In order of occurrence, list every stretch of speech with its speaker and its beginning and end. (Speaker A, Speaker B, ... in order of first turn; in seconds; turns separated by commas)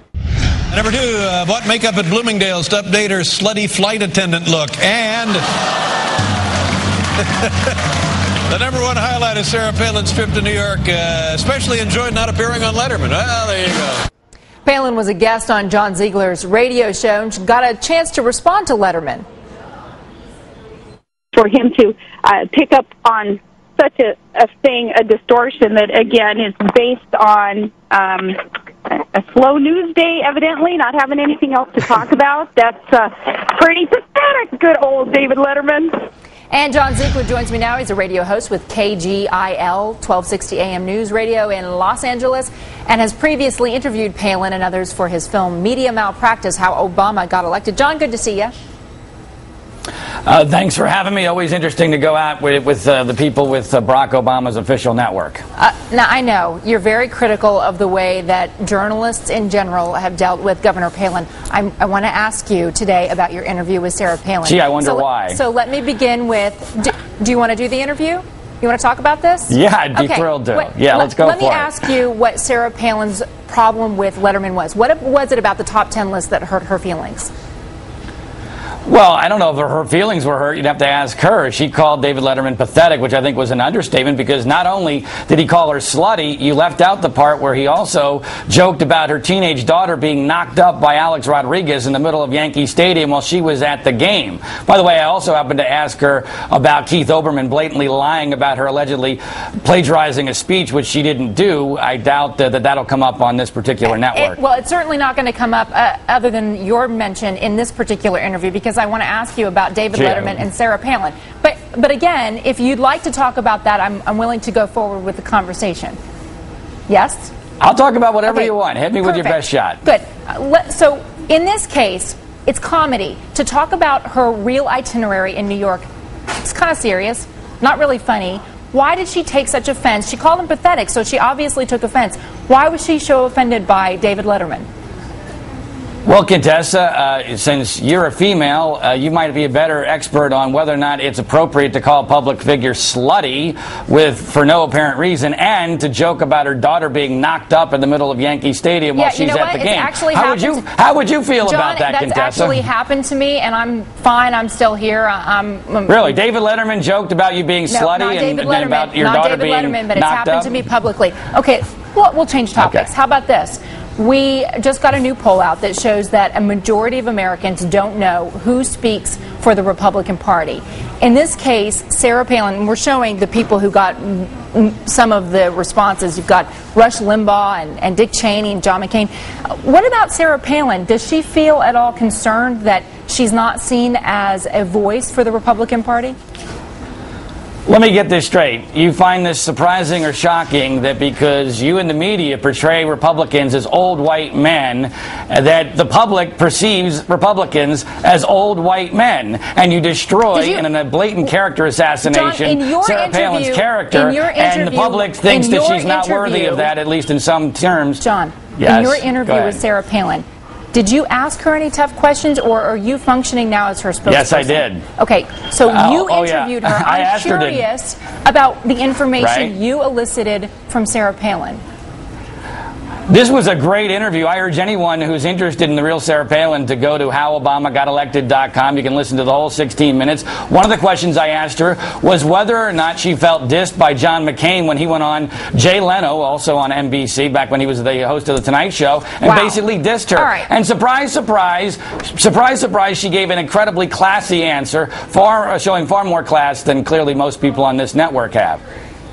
Speaker A: 0.7-5.4, Speaker A: 7.2-7.5, Speaker A: 8.5-14.0, Speaker B: 14.7-19.3, Speaker C: 21.3-35.9, Speaker B: 36.5-48.5, Speaker D: 50.3-55.4, Speaker B: 55.6-77.3, Speaker D: 64.4-65.4, Speaker D: 69.5-71.8, Speaker D: 78.8-104.4, Speaker B: 103.9-116.0, Speaker D: 109.9-110.4, Speaker B: 116.9-117.3, Speaker D: 117.6-119.8, Speaker B: 118.3-125.8, Speaker B: 126.4-134.7, Speaker D: 136.1-152.6, Speaker B: 148.9-150.6, Speaker B: 151.4-156.1, Speaker D: 155.9-160.6, Speaker B: 157.7-186.2, Speaker D: 162.6-162.9, Speaker D: 187.7-208.0, Speaker B: 200.3-200.6, Speaker B: 202.0-206.7, Speaker B: 208.0-221.6, Speaker D: 208.6-209.6, Speaker D: 214.1-214.8, Speaker D: 215.7-217.6, Speaker D: 219.2-219.5, Speaker D: 223.1-248.6, Speaker B: 239.2-239.6, Speaker B: 240.1-240.5